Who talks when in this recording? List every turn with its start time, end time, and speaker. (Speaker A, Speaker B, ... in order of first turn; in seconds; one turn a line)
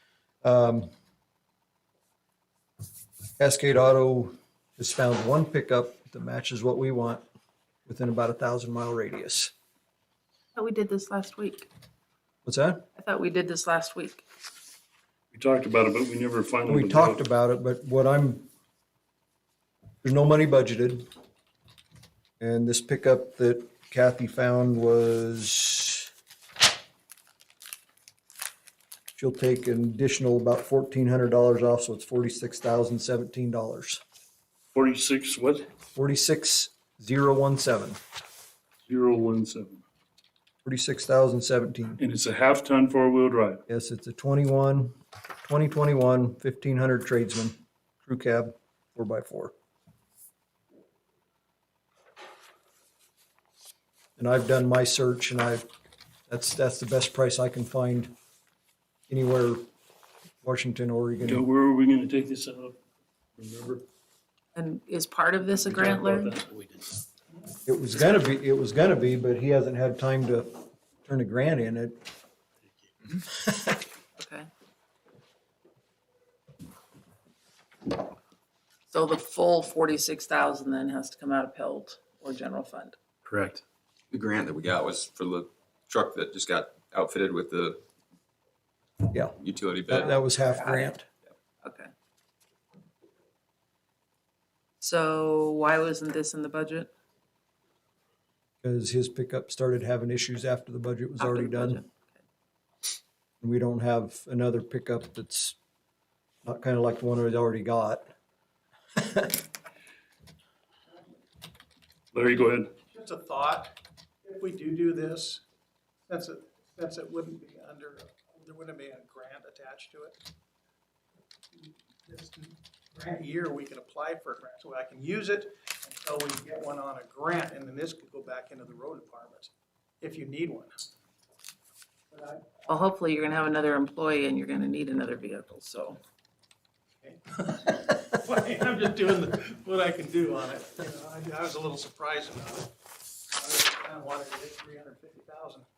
Speaker A: 0.4-0.9
Speaker A: 3.4-7.2
Speaker A: 7.8-9.5
Speaker B: 10.5-11.7
Speaker A: 12.4-12.8
Speaker B: 13.0-14.2
Speaker C: 15.3-17.2
Speaker A: 16.7-18.4
Speaker A: 20.0-21.1
Speaker A: 22.4-26.1
Speaker A: 29.1-34.0
Speaker C: 34.7-35.7
Speaker A: 35.9-38.0
Speaker C: 38.9-39.8
Speaker A: 40.6-42.0
Speaker C: 42.0-43.6
Speaker A: 43.7-49.5
Speaker A: 54.2-55.6
Speaker A: 56.3-58.1
Speaker A: 59.1-59.6
Speaker A: 60.4-61.4
Speaker C: 61.2-62.8
Speaker C: 63.4-63.8
Speaker B: 64.5-66.4
Speaker C: 65.7-66.9
Speaker A: 67.7-72.0
Speaker B: 74.2-74.5
Speaker B: 78.9-83.0
Speaker C: 83.2-83.6
Speaker D: 84.1-87.8
Speaker A: 89.1-91.1
Speaker D: 89.4-90.1
Speaker B: 90.1-91.0
Speaker B: 91.6-91.9
Speaker B: 94.8-96.9
Speaker A: 98.6-101.8
Speaker B: 101.2-102.0
Speaker A: 103.4-105.5
Speaker A: 106.4-108.1
Speaker A: 109.0-109.3
Speaker C: 112.1-112.7
Speaker E: 112.9-115.4
Speaker E: 116.1-120.2
Speaker E: 121.5-130.8
Speaker E: 132.1-132.4
Speaker B: 132.7-136.0
Speaker E: 137.0-142.7
Speaker E: 143.3-145.7